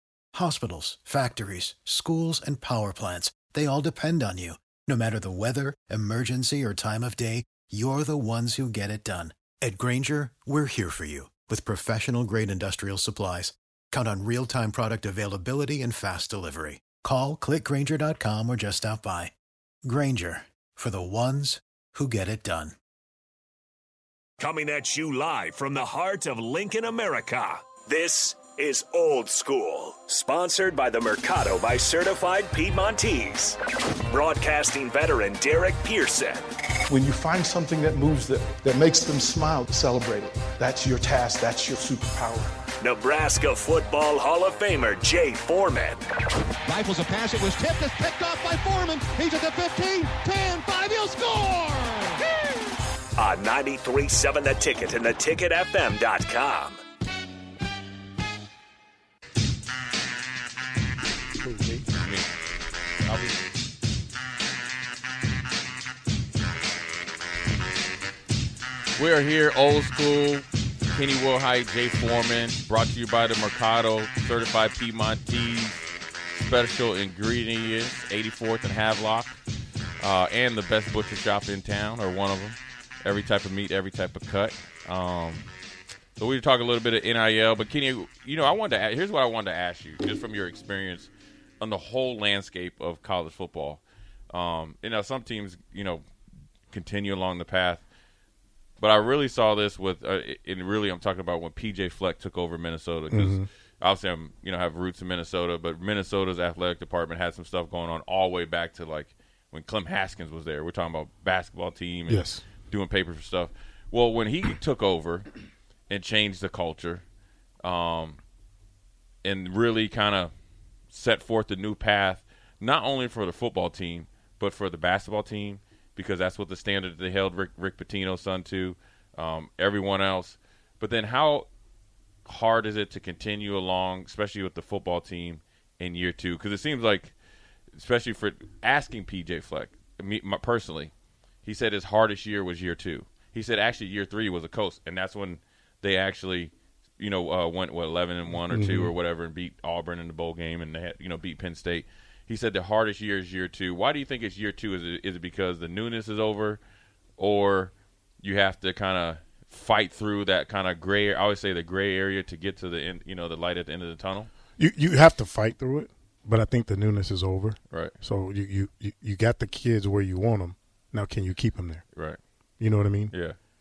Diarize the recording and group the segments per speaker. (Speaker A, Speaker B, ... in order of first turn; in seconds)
Speaker A: 0.3-19.3, 19.9-22.8
Speaker B: 24.4-33.6, 34.1-36.5, 42.8-46.0, 53.2-56.8
Speaker C: 36.9-42.6
Speaker D: 46.6-52.2
Speaker E: 61.4-61.9, 103.1-103.5, 112.1-112.4, 148.4-148.9, 164.6-171.8, 172.6-173.1
Speaker F: 62.0-62.3, 63.0-63.4, 69.0-79.4, 80.0-85.5, 86.2-91.1, 91.6-96.0, 96.7-97.8, 98.8-115.3, 115.9-117.0, 117.6-118.2, 119.2-120.3, 120.9-131.5, 132.2-137.2, 137.7-140.9, 141.4-156.6, 157.2-164.3, 173.1-173.4